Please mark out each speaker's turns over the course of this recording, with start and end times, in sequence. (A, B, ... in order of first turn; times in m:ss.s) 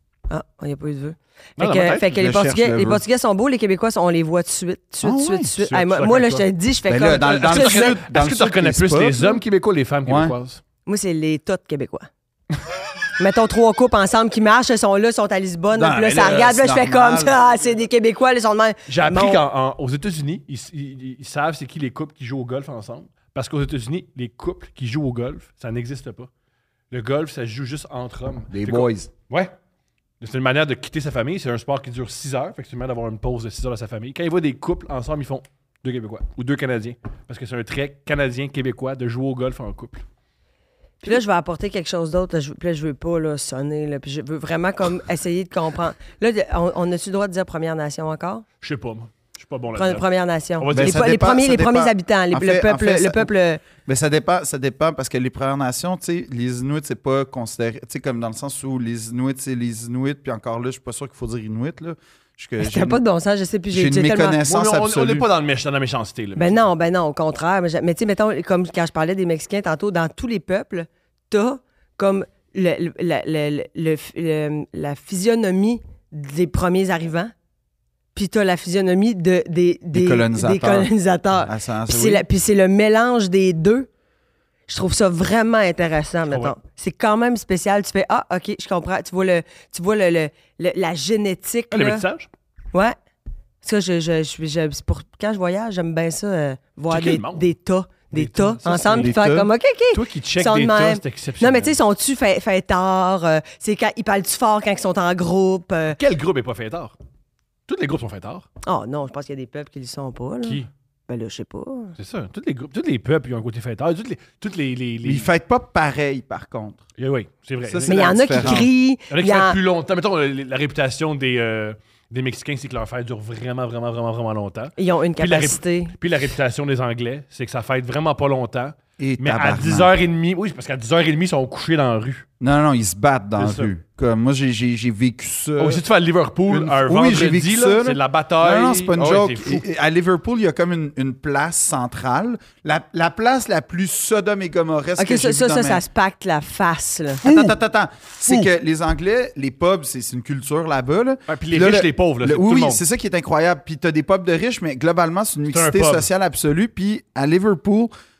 0:00.3-0:08.0 A
0:01.6-0:02.1 B
0:02.1-0:03.0 C
0:05.0-0:05.5 C
0:05.6-0:06.4 B
0:06.9-0:09.4 C
0:07.2-0:10.6 B
0:10.1-0:10.4 C
0:10.9-0:12.1 A
0:13.2-0:19.4 A
0:15.7-0:17.4 C
0:18.9-0:26.3 B
0:26.9-0:29.5 B
0:28.5-0:29.1 C
0:30.2-0:40.0 B
0:41.0-0:48.4 A
0:48.6-0:50.0 B
0:49.8-0:53.6 A
0:50.6-0:51.1 B
0:50.7-0:53.3 C
0:53.8-1:03.0 C
1:02.6-1:04.4 A
1:03.7-1:05.3 C
1:04.4-1:06.6 B
1:06.4-1:17.3 A
1:18.1-1:23.9 A
1:19.9-1:20.9 C
1:21.4-1:22.2 C
1:24.7-1:32.0 A
1:31.7-1:32.3 B
1:33.6-1:46.0 A
1:36.9-1:37.4 B
1:38.1-1:39.2 B
1:38.9-1:39.5 C
1:39.9-1:41.8 B
1:46.0-1:47.0 B
1:47.7-1:48.4 B
1:48.6-1:52.0 A
1:50.4-1:50.7 B
1:52.0-1:55.3 B
1:55.0-1:56.8 C
1:57.0-2:12.2 B
1:57.7-1:58.7 C
1:57.9-1:59.6 A
2:04.8-2:05.9 A
2:09.0-2:09.9 C
2:12.4-2:15.8 C
2:13.4-2:13.7 B
2:15.6-2:19.6 B
2:16.5-2:25.8 C
2:25.0-2:27.2 A
2:27.2-2:37.9 C
2:27.2-2:27.6 B
2:28.2-2:28.5 B
2:31.3-2:32.8 B
2:35.5-2:36.1 B